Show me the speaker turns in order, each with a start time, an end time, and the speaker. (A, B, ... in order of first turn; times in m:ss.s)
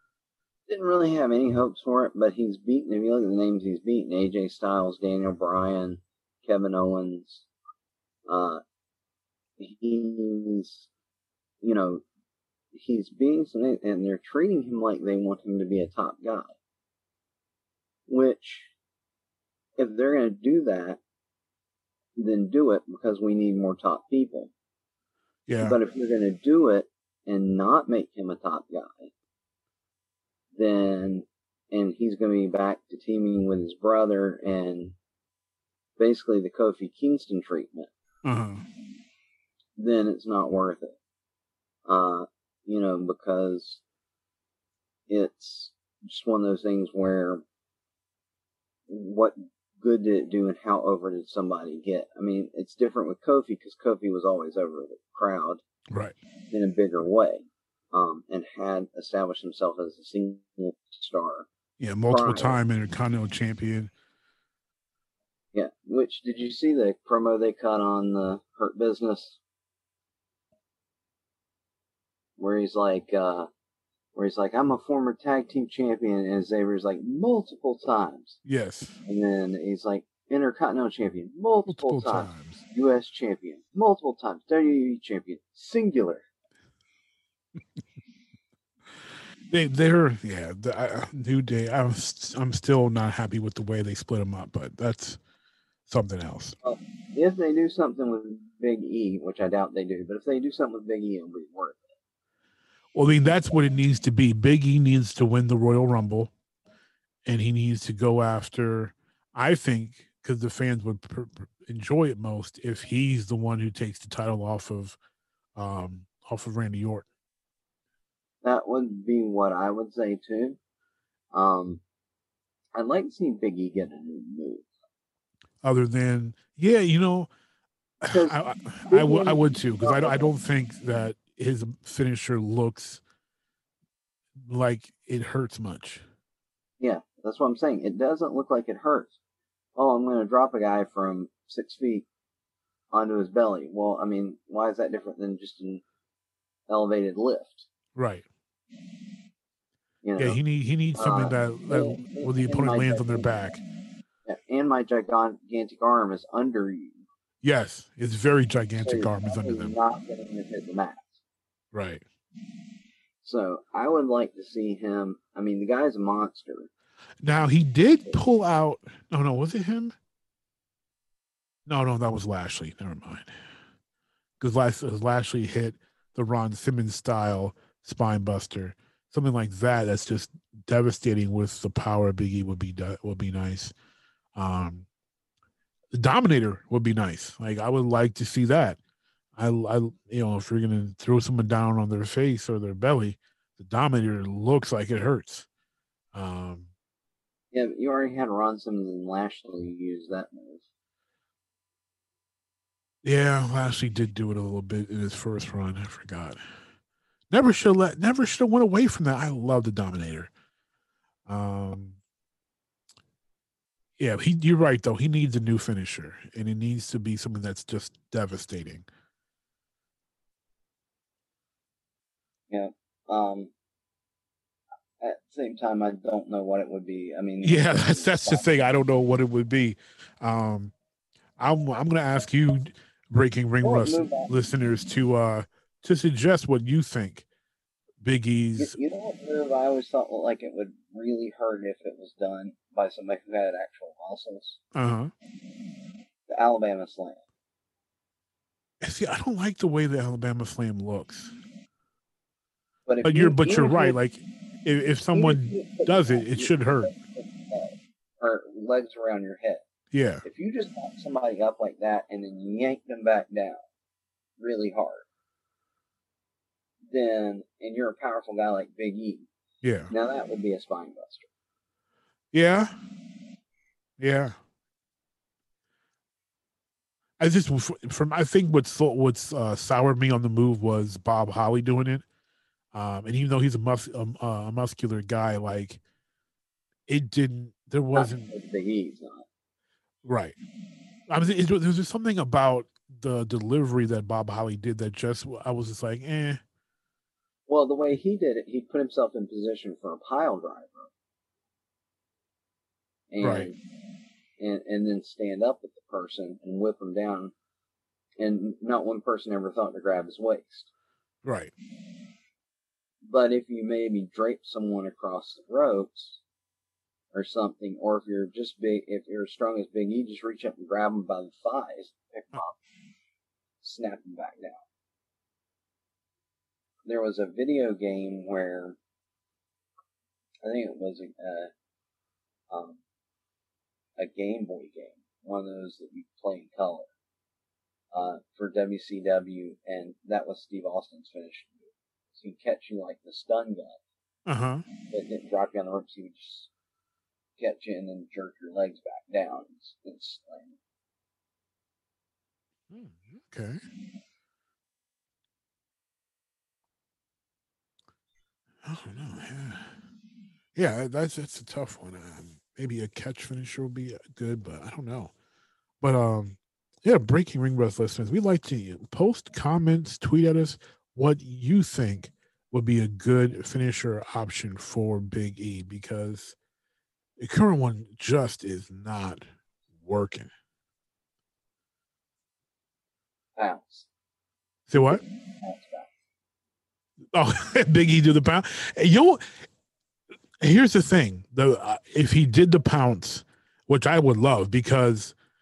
0:00.7-0:07.5 A
0:08.3-0:08.6 A
0:09.6-0:10.9 A
0:11.6-0:12.0 A
0:12.7-0:16.6 A
0:18.1-0:18.7 A
0:19.8-0:21.0 A
0:22.2-0:24.5 A
0:25.5-0:25.8 B
0:25.6-0:29.1 A
0:30.6-0:35.0 A
0:36.0-0:37.9 A
0:38.2-0:38.6 B
0:39.8-0:41.0 A
0:41.9-0:43.8 A
0:45.1-0:47.4 A
0:48.9-0:55.6 A
0:56.5-1:01.5 A
1:01.8-1:03.9 B
1:02.1-1:02.6 A
1:05.5-1:09.4 A
1:12.4-1:13.5 A
1:14.2-1:18.4 A
1:18.4-1:19.0 B
1:19.1-1:26.2 A
1:21.7-1:22.6 B
1:29.5-1:35.2 B
1:35.9-1:36.6 B
1:36.6-1:41.9 A
1:43.0-1:46.3 B
1:47.3-1:55.0 B
1:55.6-1:57.1 B
1:58.4-2:00.6 A
2:01.3-2:01.8 A
2:02.8-2:04.7 A
2:05.6-2:07.3 B
2:08.0-2:13.0 B
2:08.0-2:08.4 A
2:08.9-2:10.3 A
2:14.4-2:16.0 B
2:16.8-2:19.1 A
2:19.8-2:22.1 A
2:22.9-2:25.8 A
2:26.7-2:27.7 A
2:28.0-2:28.2 B
2:30.0-2:30.4 A
2:30.2-2:33.6 B
2:31.0-2:33.4 A
2:34.2-2:37.0 A
2:37.4-2:39.8 B
2:38.8-2:41.2 A
2:41.7-2:42.0 B
2:43.2-2:46.7 A
2:47.2-2:50.0 B
2:51.7-2:53.3 B
2:54.4-3:03.7 B
3:04.4-3:04.9 B
3:05.9-3:08.8 B
3:09.4-3:15.5 B
3:16.1-3:16.7 B
3:17.5-3:20.6 A
3:23.0-3:26.4 B
3:27.3-3:30.3 B
3:31.3-3:32.0 B
3:34.0-3:38.9 B
3:42.5-3:43.5 A
3:45.0-3:48.4 A
3:47.4-3:50.7 B
3:51.4-3:57.3 B
3:53.6-3:54.3 A
3:58.0-3:58.8 B
3:58.6-4:04.6 A
4:04.8-4:05.1 B
4:06.3-4:07.2 A
4:08.8-4:11.3 B
4:12.9-4:14.0 A
4:13.0-4:16.9 B
4:15.1-4:19.6 A
4:19.9-4:20.2 B
4:20.2-4:23.6 A
4:24.4-4:25.0 A
4:26.9-4:29.3 A
4:29.6-4:29.9 B
4:29.9-4:31.3 A
4:32.3-4:32.7 B
4:34.0-4:34.4 B
4:37.2-4:42.0 B
4:42.7-4:45.8 B
4:46.9-4:48.3 B
4:47.9-4:49.3 A
4:50.0-4:50.4 B
4:51.1-4:56.4 B
4:57.5-5:00.9 A
5:03.1-5:03.6 A
5:03.2-5:03.5 B
5:04.4-5:07.3 A
5:08.2-5:10.7 A
5:11.2-5:11.5 B
5:13.0-5:16.2 A
5:17.1-5:22.6 A
5:23.6-5:24.6 A
5:26.9-5:28.8 A
5:30.4-5:31.5 A
5:32.5-5:32.8 A
5:34.0-5:36.9 A
5:37.9-5:43.8 A
5:44.3-5:44.7 B
5:44.9-5:46.5 A
5:47.4-5:50.6 A
5:52.7-5:53.6 B
5:58.6-5:59.8 B
6:00.6-6:05.1 B
6:05.8-6:16.4 B
6:17.2-6:19.2 B
6:19.8-6:20.3 B
6:23.4-6:23.9 A
6:24.7-6:25.0 B
6:24.7-6:25.9 A
6:27.1-6:29.4 B
6:30.4-6:35.2 B